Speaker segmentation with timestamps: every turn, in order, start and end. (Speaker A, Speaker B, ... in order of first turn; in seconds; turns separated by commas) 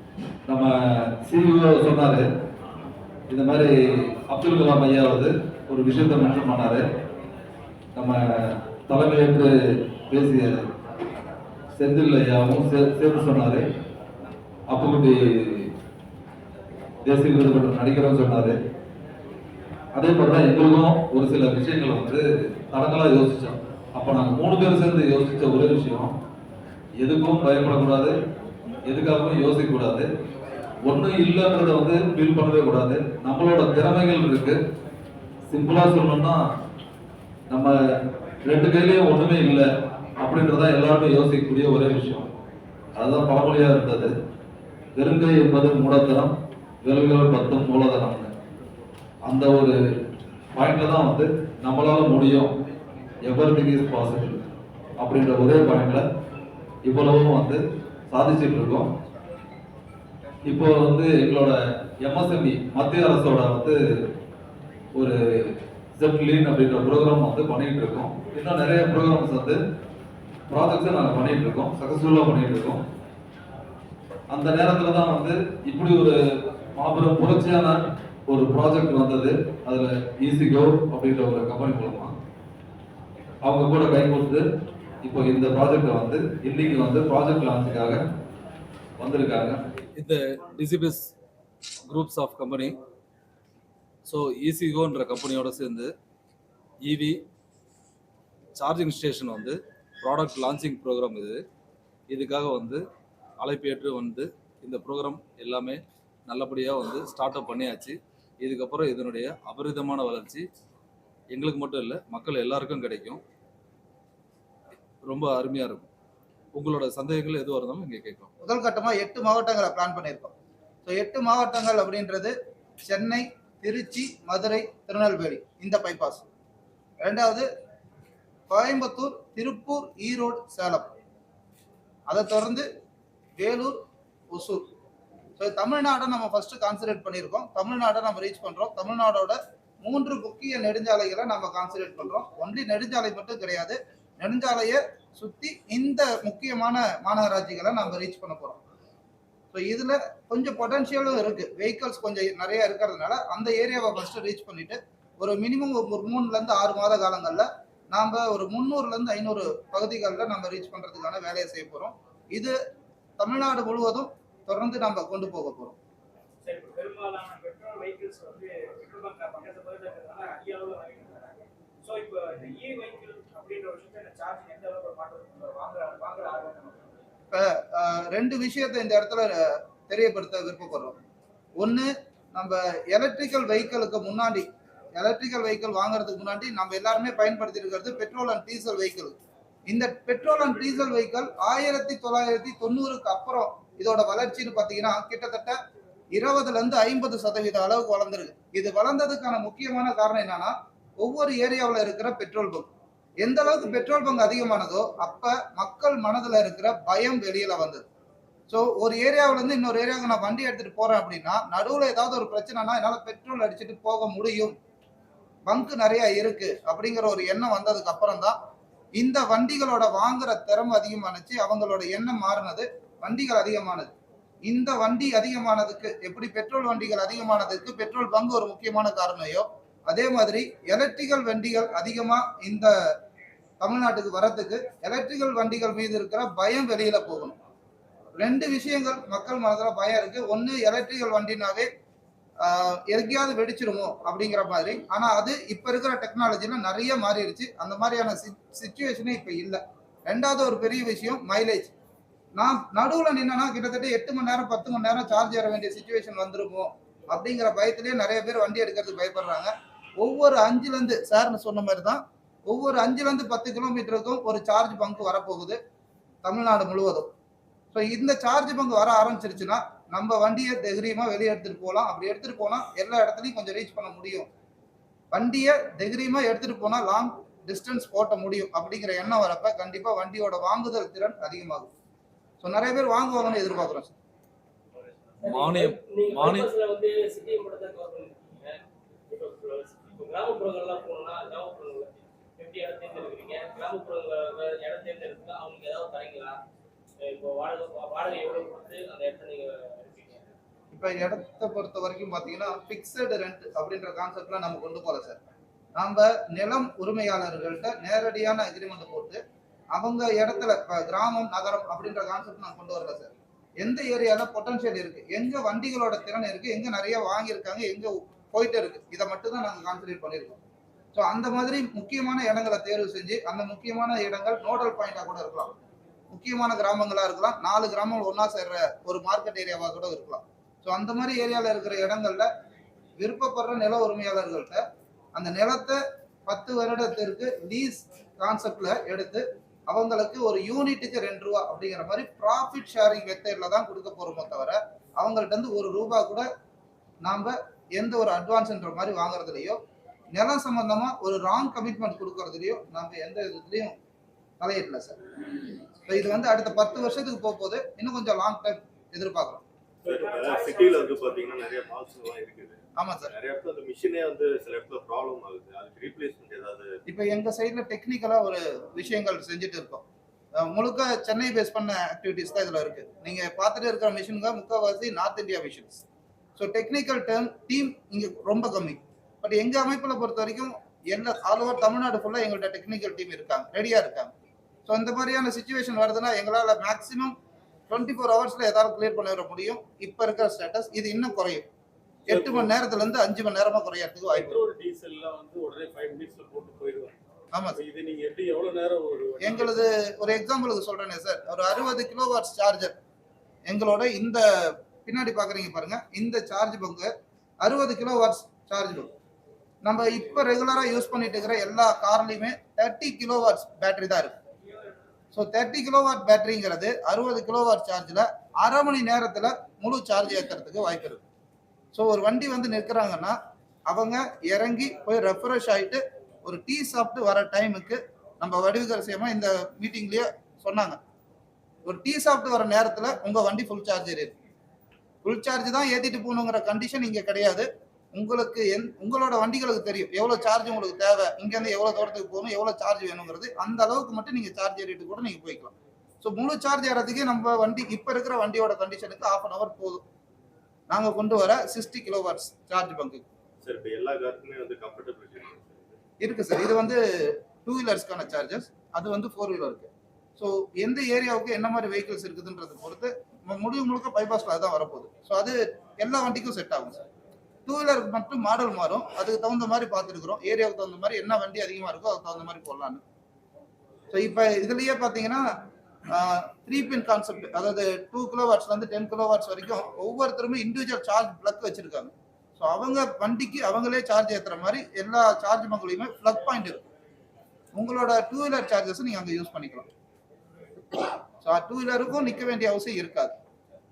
Speaker A: 0.5-2.3, Speaker A: 3.3-3.7, Speaker A: 4.3-6.8, Speaker A: 8.0-9.6, Speaker A: 10.1-10.7, Speaker A: 11.8-13.7, Speaker A: 14.7-15.7, Speaker A: 17.0-18.6, Speaker A: 19.9-26.1, Speaker A: 27.0-28.1, Speaker A: 28.9-30.1, Speaker A: 30.9-34.6, Speaker A: 35.5-36.4, Speaker A: 38.5-39.7, Speaker A: 40.2-42.3, Speaker A: 43.0-44.1, Speaker A: 45.0-46.3, Speaker A: 46.9-48.3, Speaker A: 49.3-49.8, Speaker A: 50.5-52.5, Speaker A: 53.3-54.4, Speaker A: 55.0-56.0, Speaker A: 56.9-58.9, Speaker A: 60.5-63.8, Speaker A: 65.0-69.6, Speaker A: 70.5-72.8, Speaker A: 74.3-76.2, Speaker A: 76.8-77.8, Speaker A: 78.3-82.1, Speaker A: 83.4-84.4, Speaker A: 85.0-88.0, Speaker A: 89.0-91.1, Speaker A: 91.9-92.8, Speaker A: 94.1-95.9, Speaker A: 96.8-97.2, Speaker A: 98.6-101.4, Speaker A: 102.1-102.8, Speaker A: 103.4-110.5, Speaker A: 111.3-113.2, Speaker A: 115.0-115.9, Speaker A: 116.5-118.3, Speaker B: 118.4-120.3, Speaker B: 120.9-122.3, Speaker B: 122.9-126.2, Speaker B: 127.0-127.5, Speaker B: 128.5-130.9, Speaker B: 132.1-132.7, Speaker B: 133.4-133.8, Speaker B: 134.3-134.7, Speaker B: 135.4-148.6, Speaker B: 149.5-162.6, Speaker B: 163.2-165.8, Speaker C: 166.4-176.9, Speaker B: 177.3-181.0, Speaker B: 181.6-189.2, Speaker B: 189.7-195.6, Speaker B: 196.1-202.7, Speaker B: 203.2-207.8, Speaker B: 208.5-214.6, Speaker B: 215.5-218.4, Speaker B: 219.0-223.9, Speaker B: 224.5-232.7, Speaker B: 233.6-237.4, Speaker B: 238.2-241.7, Speaker B: 242.4-251.7, Speaker B: 252.4-265.6, Speaker B: 266.2-267.1, Speaker B: 267.7-274.3, Speaker B: 275.1-281.7, Speaker B: 282.4-283.9, Speaker D: 284.8-296.4, Speaker A: 285.2-286.5, Speaker D: 297.0-300.3, Speaker B: 300.7-305.2, Speaker B: 305.8-309.2, Speaker B: 309.7-320.4, Speaker B: 320.9-325.5, Speaker B: 326.1-332.3, Speaker B: 333.0-334.6, Speaker B: 335.1-346.3, Speaker B: 347.0-349.6, Speaker B: 350.1-353.8, Speaker B: 354.4-355.0, Speaker B: 355.9-359.4, Speaker C: 359.8-361.3, Speaker E: 359.9-366.7, Speaker B: 362.8-363.1, Speaker B: 366.9-369.8, Speaker B: 370.4-375.8, Speaker B: 376.4-384.1, Speaker B: 384.7-387.1, Speaker B: 387.7-391.5, Speaker E: 392.1-392.5, Speaker B: 392.1-394.5, Speaker E: 394.1-397.0, Speaker B: 397.3-397.6, Speaker E: 397.6-399.6, Speaker B: 399.2-402.8, Speaker B: 403.5-406.9, Speaker B: 407.4-408.9, Speaker B: 409.6-414.2, Speaker B: 415.1-421.0, Speaker B: 421.7-423.2, Speaker B: 423.7-430.8, Speaker B: 431.7-434.1, Speaker B: 435.0-449.8, Speaker B: 450.7-453.0, Speaker E: 453.4-455.8, Speaker B: 456.0-466.8, Speaker B: 467.5-472.8, Speaker B: 473.9-475.3, Speaker B: 475.9-486.6, Speaker B: 487.5-489.7, Speaker B: 491.2-493.2